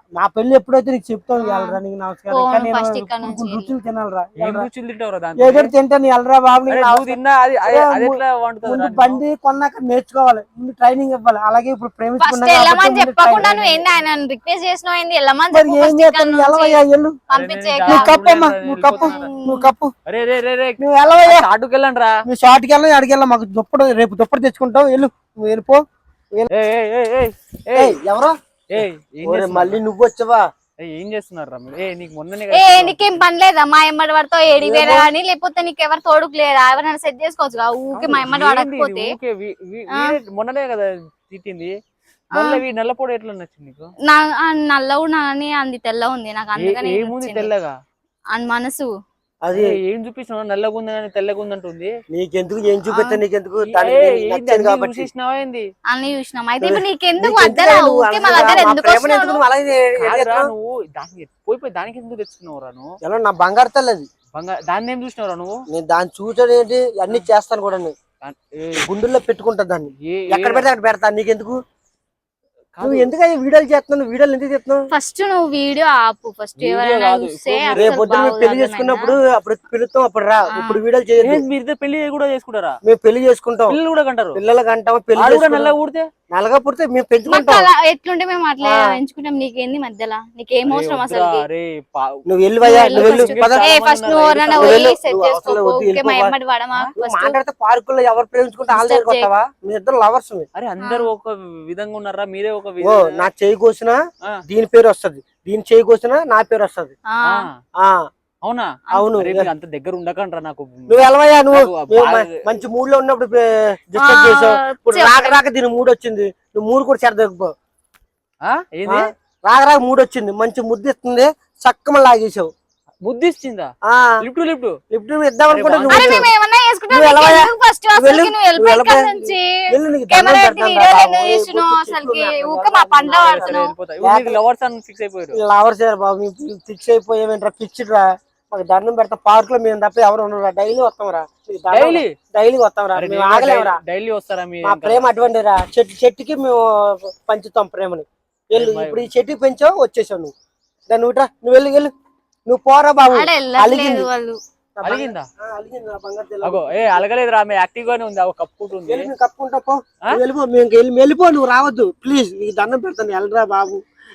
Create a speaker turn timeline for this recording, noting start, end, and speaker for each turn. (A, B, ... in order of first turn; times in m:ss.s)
0:00.2-0:04.7 A
0:01.4-0:01.8 B
0:02.3-0:03.7 B
0:04.4-0:05.7 C
0:05.4-0:13.9 A
0:06.7-0:09.2 C
0:12.2-0:18.1 B
0:15.5-0:17.2 A
0:17.3-0:19.3 C
0:17.9-0:19.9 A
0:18.8-0:19.7 B
0:20.1-0:22.1 C
0:20.8-0:21.5 A
0:22.3-0:25.8 A
0:26.5-0:28.0 C
0:27.7-0:28.3 A
0:28.7-0:29.8 C
0:29.2-0:30.5 A
0:30.8-0:33.2 C
0:32.5-0:39.1 B
0:34.6-0:35.1 A
0:37.9-0:41.8 C
0:39.9-0:40.2 B
0:42.3-0:43.9 C
0:42.3-0:42.6 B
0:44.1-0:47.5 B
0:46.6-0:47.8 C
0:48.3-0:48.9 B
0:49.4-0:49.8 A
0:49.5-0:51.9 C
0:52.1-0:55.1 A
0:53.6-0:55.7 C
0:55.9-0:59.4 B
0:56.6-1:00.5 A
0:58.3-0:58.7 C
1:00.0-1:02.9 C
1:03.0-1:04.1 A
1:04.3-1:05.5 C
1:05.7-1:07.9 A
1:08.2-1:08.8 C
1:08.8-1:11.6 A
1:10.0-1:10.7 C
1:12.8-1:13.1 C
1:12.8-1:14.8 A
1:14.9-1:19.2 B
1:16.6-1:18.3 C
1:17.7-1:21.4 A
1:20.5-1:20.8 B
1:21.2-1:22.8 C
1:22.8-1:23.8 A
1:23.7-1:24.4 C
1:24.3-1:25.8 A
1:25.2-1:26.1 C
1:26.3-1:27.7 A
1:27.3-1:31.5 B
1:30.7-1:34.9 C
1:32.3-1:33.6 A
1:32.6-1:37.4 B
1:34.5-1:36.3 A
1:37.0-1:40.5 A
1:38.7-1:39.3 B
1:40.6-1:43.2 C
1:40.8-1:41.1 B
1:42.8-1:46.9 A
1:47.1-1:47.5 B
1:47.8-1:48.0 A
1:48.4-1:52.4 C
1:48.9-1:49.5 A
1:50.9-1:57.5 A
1:54.0-1:55.4 B
1:58.4-1:59.1 C
1:58.8-2:02.5 A
2:03.0-2:03.7 C
2:03.9-2:04.2 A
2:04.2-2:04.8 C
2:04.9-2:06.3 A
2:05.5-2:06.3 C
2:05.9-2:13.7 B
2:06.9-2:14.4 A
2:13.2-2:15.4 C
2:15.3-2:23.8 A
2:21.7-2:22.1 C
2:22.9-2:25.1 C
2:24.6-2:30.3 A
2:28.5-2:29.1 C
2:30.9-2:31.9 A
2:32.5-2:34.1 A
2:33.1-2:34.4 B
2:34.8-2:37.1 A
2:34.8-2:35.3 C
2:36.4-2:39.1 C
2:38.8-2:43.8 A